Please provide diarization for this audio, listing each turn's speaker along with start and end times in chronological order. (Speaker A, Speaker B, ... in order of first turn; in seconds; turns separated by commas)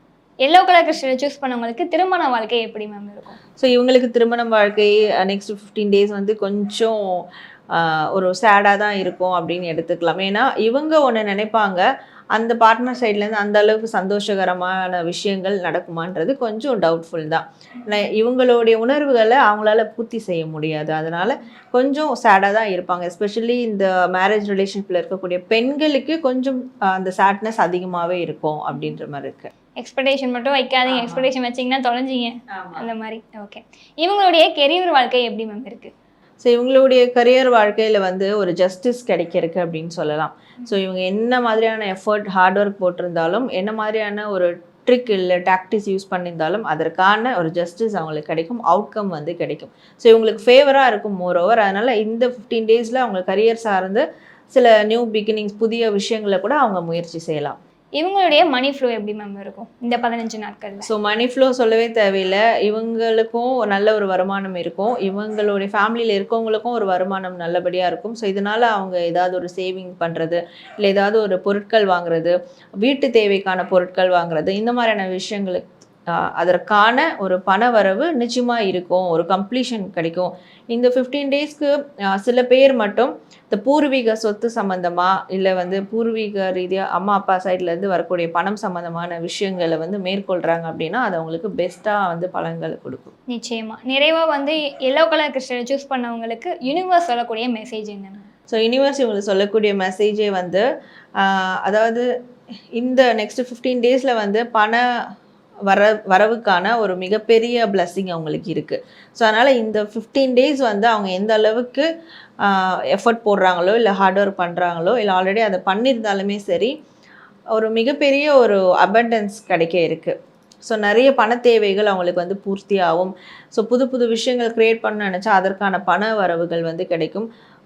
Speaker A: 0.4-3.4, Speaker B: 3.6-29.5, Speaker A: 29.8-35.9, Speaker B: 30.9-31.3, Speaker B: 32.5-32.9, Speaker B: 36.4-57.6, Speaker A: 58.0-60.9, Speaker B: 60.8-93.1, Speaker A: 93.3-98.3, Speaker B: 98.5-100.6, Speaker B: 101.2-102.1, Speaker B: 102.8-104.8, Speaker B: 105.7-111.9, Speaker B: 112.4-116.7, Speaker B: 117.5-127.3